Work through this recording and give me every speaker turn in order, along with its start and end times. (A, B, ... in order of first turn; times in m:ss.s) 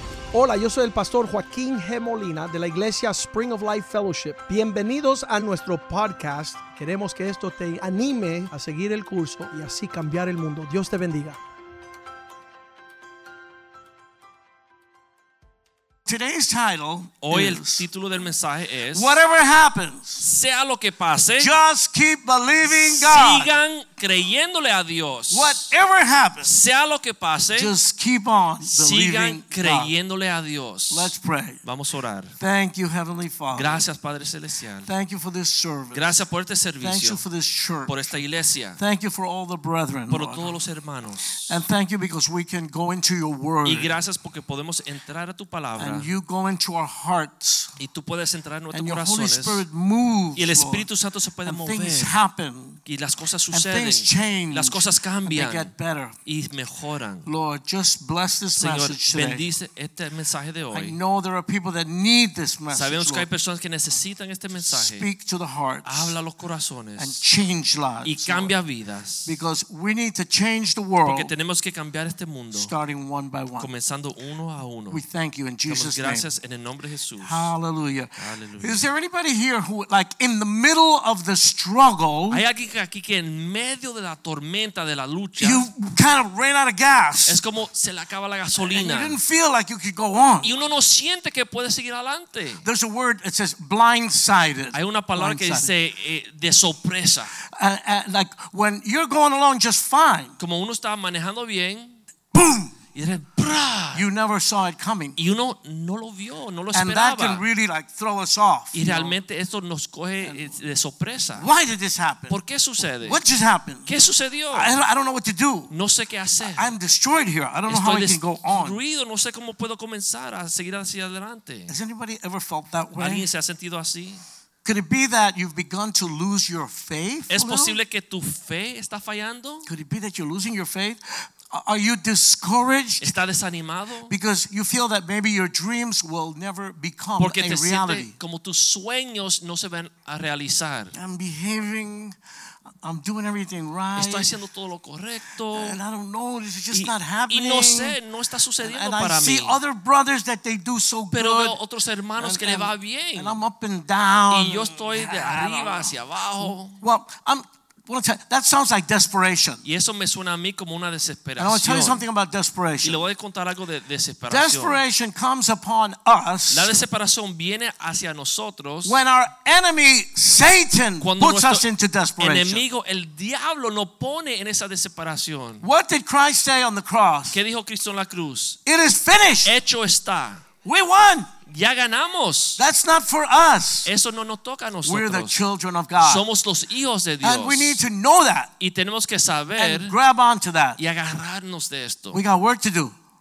0:00.3-0:11.4 A
0:16.0-0:17.8 B
0:17.2-0:19.2 C
0:18.9-0:20.2 B
0:20.2-0:21.5 C
0:21.4-0:23.5 B
0:22.7-0:25.7 C
0:25.3-0:26.5 B
0:26.4-0:27.7 C
0:27.5-0:29.9 B
0:28.6-0:31.1 C
0:30.9-0:31.6 B
0:31.6-0:32.4 C
0:32.4-0:33.8 B
0:33.5-0:34.9 C
0:34.8-0:36.1 B
0:35.9-0:37.2 C
0:36.8-0:38.0 B
0:37.9-0:38.8 C
0:38.8-0:40.6 B
0:40.1-0:41.6 C
0:41.5-0:43.9 B
0:43.6-0:46.1 C
0:45.8-0:47.7 B
0:47.8-0:49.6 C
0:48.7-0:50.9 B
0:50.4-0:52.2 C
0:51.4-0:52.8 B
0:52.8-0:55.7 C
0:53.5-0:56.1 B
0:56.2-0:57.3 C
0:57.2-0:59.4 B
0:58.6-1:01.0 C
1:00.7-1:03.3 B
1:02.7-1:05.1 C
1:04.6-1:06.1 B
1:05.8-1:07.2 C
1:07.0-1:08.5 B
1:08.0-1:09.3 C
1:09.2-1:11.3 B
1:11.0-1:12.7 C
1:12.5-1:13.7 B
1:13.6-1:15.0 C
1:14.9-1:16.3 B
1:15.7-1:17.5 C
1:17.2-1:22.4 B
1:18.2-1:18.9 C
1:22.3-1:25.7 C
1:25.4-1:27.4 B
1:27.2-1:29.2 C
1:28.6-1:30.5 B
1:30.4-1:32.6 C
1:32.6-1:35.7 B
1:34.7-1:37.3 C
1:37.5-1:40.3 B
1:40.4-1:42.0 C
1:42.3-1:42.7 B
1:42.9-1:44.0 C
1:43.9-1:45.2 B
1:45.2-1:47.4 C
1:46.7-1:49.2 B
1:48.7-1:51.4 C
1:50.2-1:50.6 B
1:51.4-1:52.4 B
1:52.3-1:53.2 C
1:53.0-1:53.9 B
1:53.8-1:54.7 C
1:54.5-1:55.7 B
1:55.7-1:56.7 C
1:56.4-1:58.8 B
1:57.7-2:01.7 C
2:01.7-2:03.3 B
2:03.0-2:04.2 C
2:04.6-2:07.8 B
2:07.3-2:09.7 C
2:09.7-2:13.2 B
2:13.0-2:14.1 C
2:14.1-2:18.1 B
2:17.2-2:20.9 C
2:20.9-2:22.2 B
2:22.8-2:24.3 B
2:23.9-2:25.8 C
2:25.5-2:28.0 B
2:26.7-2:29.6 C
2:28.6-2:31.6 B
2:31.1-2:33.4 C
2:32.2-2:39.6 B
2:34.3-2:36.8 C
2:39.6-2:42.0 C
2:41.4-2:43.0 B
2:42.8-2:44.8 C
2:44.3-2:46.7 B
2:46.5-2:49.0 C
2:48.8-2:52.6 B
2:51.0-2:51.7 C
2:52.2-2:55.6 C
2:55.6-2:57.4 B
2:57.3-2:58.6 C
2:58.6-2:59.5 B
2:59.4-3:00.4 C
3:00.6-3:01.3 B
3:01.5-3:02.6 C
3:02.6-3:03.9 B
3:03.8-3:05.4 C
3:04.8-3:06.2 B
3:06.0-3:07.8 C
3:07.2-3:08.5 B
3:08.6-3:09.9 C
3:09.6-3:10.8 B
3:10.8-3:12.2 C
3:12.1-3:12.9 B